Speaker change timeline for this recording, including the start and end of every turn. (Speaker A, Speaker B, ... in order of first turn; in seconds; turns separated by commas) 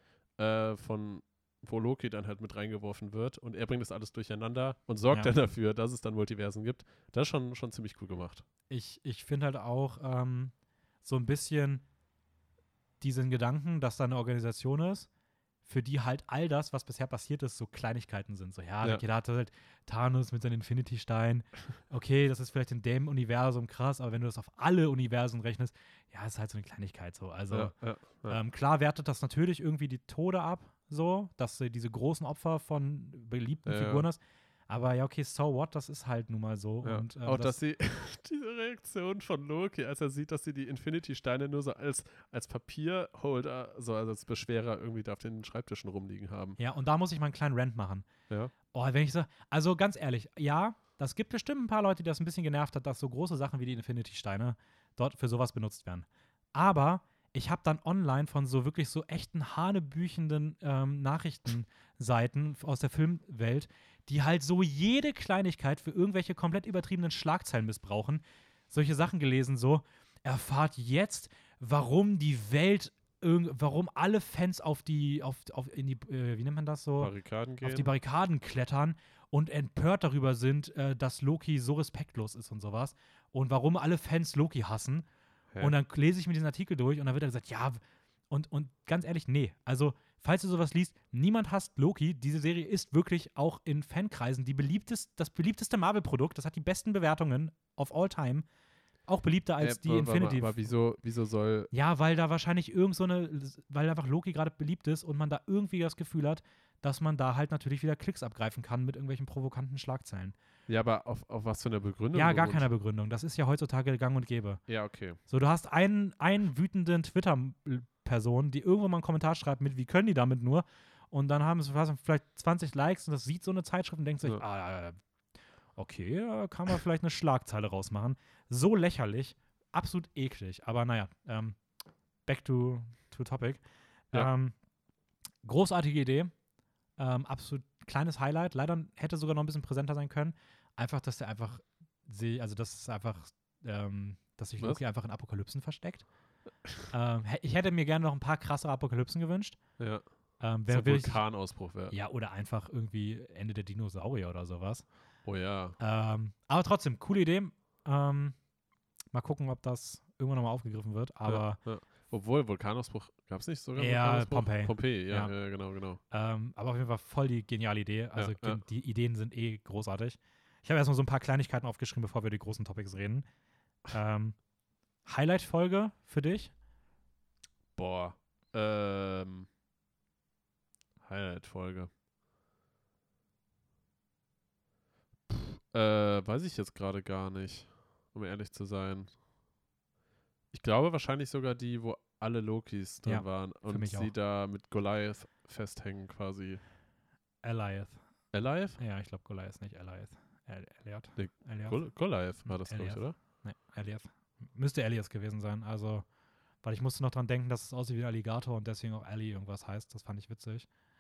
Speaker A: 0.4-8.4, Speaker B: 8.7-11.8, Speaker B: 13.0-15.1, Speaker B: 15.7-37.6, Speaker A: 27.5-28.4, Speaker A: 33.6-34.1, Speaker A: 36.8-46.6, Speaker B: 46.6-48.1, Speaker B: 48.7-85.0, Speaker A: 77.0-77.9, Speaker B: 85.6-87.8, Speaker B: 88.3-98.5, Speaker B: 99.1-100.7, Speaker A: 99.6-101.7, Speaker B: 101.7-110.4, Speaker A: 110.7-112.7, Speaker B: 112.1-114.6, Speaker A: 114.7-115.2, Speaker B: 115.3-124.9, Speaker B: 125.8-131.6, Speaker B: 132.3-134.6, Speaker B: 135.4-136.3, Speaker B: 137.0-146.1, Speaker B: 146.9-149.6, Speaker A: 149.8-150.0, Speaker B: 150.4-151.2, Speaker A: 150.7-151.9, Speaker B: 151.9-154.9, Speaker A: 155.2-155.8, Speaker B: 155.8-158.4, Speaker B: 159.1-161.6, Speaker A: 161.3-166.0, Speaker B: 163.8-165.3, Speaker B: 166.1-173.3, Speaker A: 168.2-168.6, Speaker B: 173.9-174.4, Speaker B: 175.1-176.5, Speaker A: 177.8-179.5, Speaker A: 181.0-181.9, Speaker A: 185.3-189.1, Speaker A: 190.5-196.6, Speaker B: 193.0-194.1, Speaker B: 197.4-198.0, Speaker A: 198.3-198.8, Speaker B: 198.8-201.8, Speaker A: 201.2-203.2, Speaker B: 202.4-206.1, Speaker B: 206.6-210.7